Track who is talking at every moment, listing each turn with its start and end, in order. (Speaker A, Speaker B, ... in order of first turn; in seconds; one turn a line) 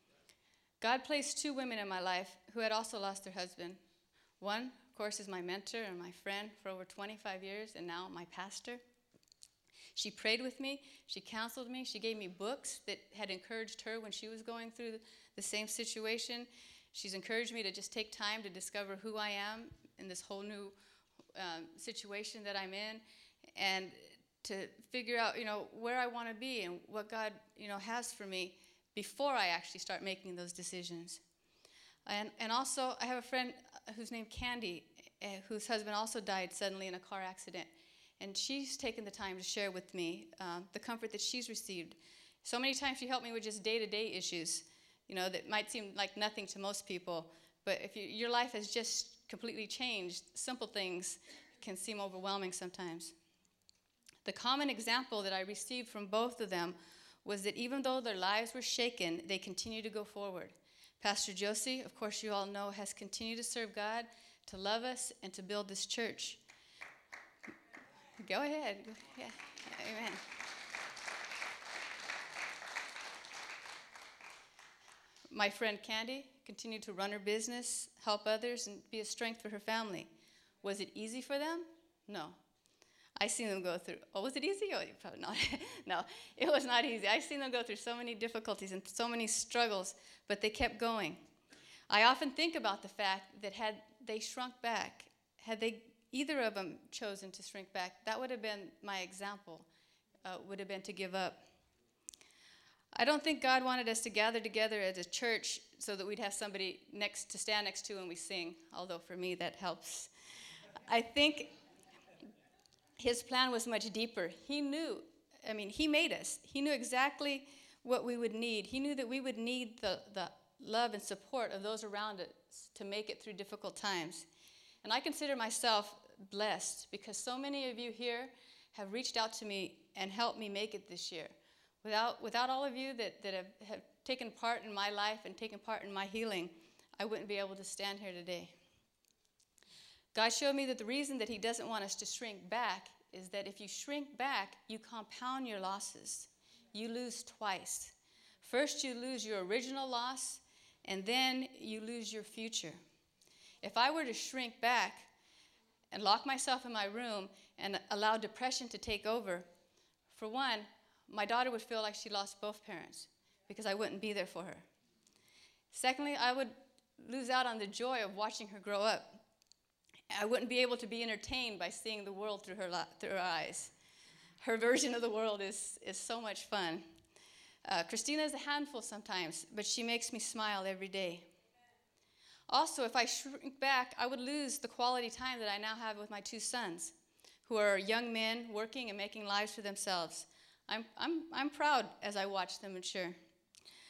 Speaker A: 0.8-3.8
Speaker A: 4.4-8.8
Speaker A: 9.9-20.8
Speaker A: 21.4-23.0
Speaker A: 23.6-31.2
Speaker A: 32.1-53.1
Speaker A: 54.2-66.4
Speaker A: 68.2-70.2
Speaker A: 75.3-80.1
Speaker A: 80.6-82.4
Speaker A: 83.2-91.2
Speaker A: 91.9-99.7
Speaker A: 100.2-101.5
Speaker A: 102.9-110.1
Speaker A: 110.9-111.5
Speaker A: 113.0-124.3
Speaker A: 124.8-138.6
Speaker A: 140.1-152.8
Speaker A: 153.6-155.1
Speaker A: 155.9-159.5
Speaker A: 160.1-164.7
Speaker A: 165.7-169.2
Speaker A: 170.1-173.7
Speaker A: 174.4-176.9
Speaker A: 177.7-181.3
Speaker A: 182.5-186.9
Speaker A: 187.5-193.2